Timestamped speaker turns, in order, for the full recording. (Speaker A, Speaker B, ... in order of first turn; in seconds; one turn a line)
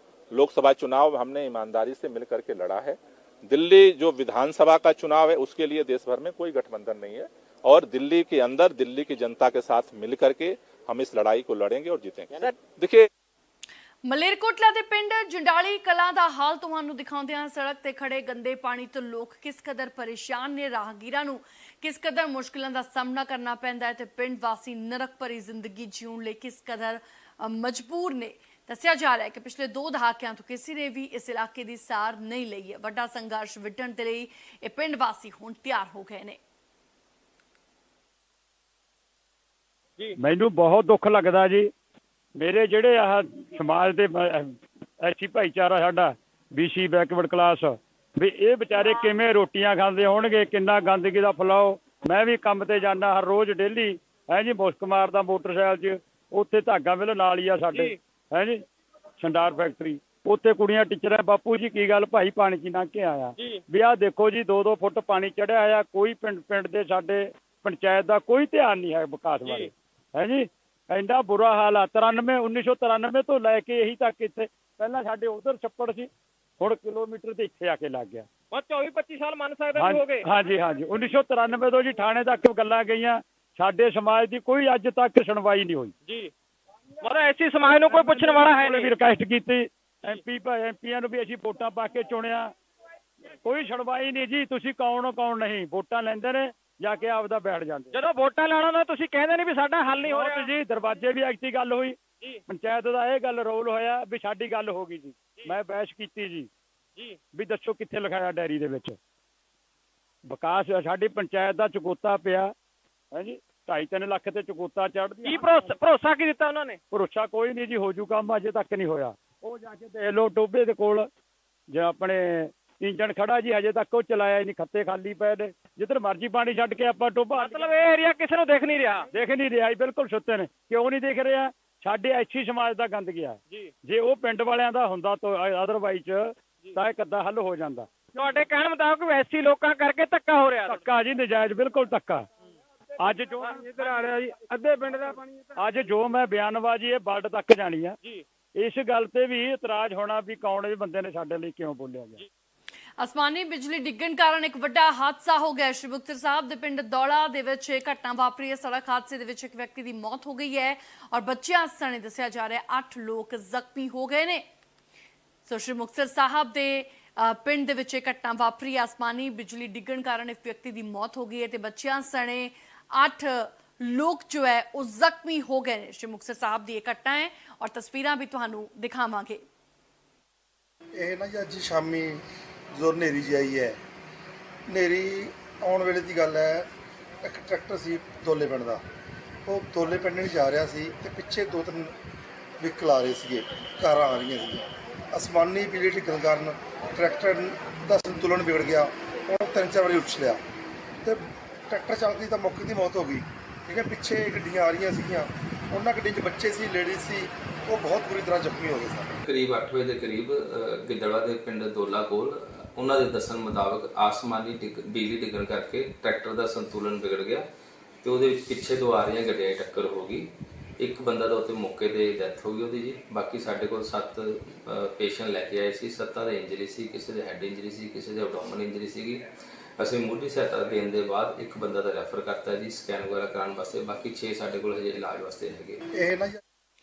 Speaker A: 0.3-13.1
Speaker B: 14.0-36.4
Speaker C: 40.2-41.7
Speaker C: 42.4-58.6
Speaker D: 57.7-58.0
Speaker C: 59.2-78.3
Speaker D: 69.4-69.7
Speaker D: 78.5-80.3
Speaker C: 79.7-85.9
Speaker D: 87.0-88.9
Speaker C: 87.9-92.5
Speaker C: 93.4-97.9
Speaker D: 97.9-100.5
Speaker C: 100.0-106.5
Speaker C: 107.3-109.0
Speaker C: 110.3-112.5
Speaker C: 113.1-115.8
Speaker D: 115.2-116.8
Speaker C: 116.9-121.1
Speaker C: 121.7-127.8
Speaker D: 127.3-129.1
Speaker C: 129.1-138.3
Speaker D: 138.2-141.0
Speaker C: 140.6-142.3
Speaker C: 143.0-147.9
Speaker D: 143.2-145.2
Speaker C: 148.6-152.2
Speaker B: 153.0-164.4
Speaker B: 165.4-179.4
Speaker E: 180.9-183.8
Speaker E: 184.7-186.7
Speaker E: 187.2-188.8
Speaker E: 189.4-191.9
Speaker E: 192.6-200.4
Speaker E: 201.0-209.2
Speaker F: 209.2-217.4
Speaker F: 218.0-229.3
Speaker F: 229.8-235.8
Speaker E: 235.9-236.4